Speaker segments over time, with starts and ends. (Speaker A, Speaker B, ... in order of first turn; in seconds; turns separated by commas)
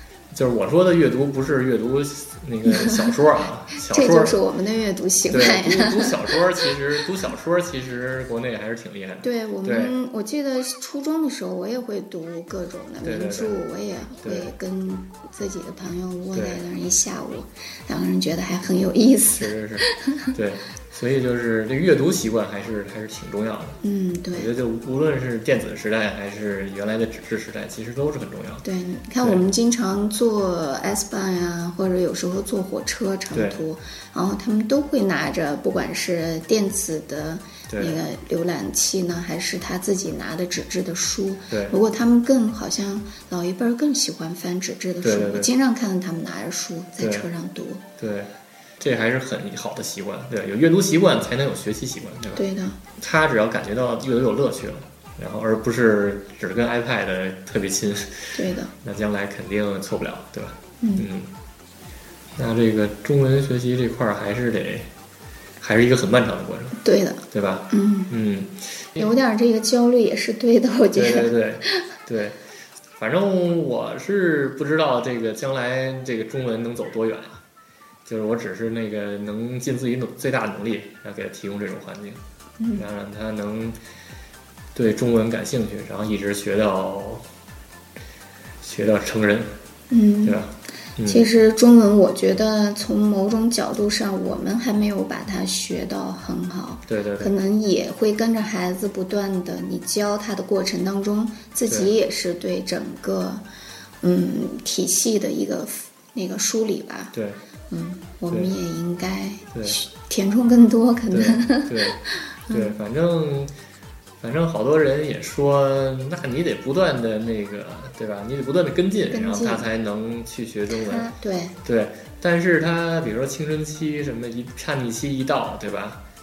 Speaker A: 0.3-4.4, Speaker B: 2.6-3.2, Speaker B: 3.7-6.7, Speaker A: 5.3-9.9, Speaker B: 9.2-20.3, Speaker A: 13.0-13.6, Speaker A: 14.2-14.5, Speaker A: 16.3-16.6, Speaker A: 19.4-23.8, Speaker B: 23.8-24.5, Speaker A: 24.3-28.6, Speaker B: 28.6-47.8, Speaker A: 33.3-33.6, Speaker A: 37.7-38.0, Speaker A: 41.5-41.8, Speaker A: 45.0-45.5, Speaker A: 47.0-47.3, Speaker A: 48.0-52.4, Speaker B: 52.3-52.8, Speaker A: 53.0-61.3, Speaker B: 58.3-58.7, Speaker B: 60.8-61.0, Speaker A: 62.4-64.9, Speaker A: 65.6-66.8, Speaker B: 66.8-68.1, Speaker A: 67.3-69.1, Speaker B: 69.0-71.9, Speaker A: 70.9-72.4, Speaker A: 73.0-77.4, Speaker A: 78.0-82.2, Speaker A: 82.7-83.8, Speaker A: 84.7-87.2, Speaker A: 88.6-89.6, Speaker B: 89.9-90.4, Speaker A: 90.2-91.3, Speaker B: 91.0-103.4, Speaker A: 96.9-97.3, Speaker A: 101.7-101.9, Speaker B: 104.0-107.1, Speaker A: 107.1-107.4, Speaker B: 107.7-112.7, Speaker A: 109.5-109.8, Speaker A: 111.1-113.5, Speaker A: 114.2-121.1, Speaker B: 119.1-119.7, Speaker B: 120.7-121.5, Speaker A: 121.6-126.0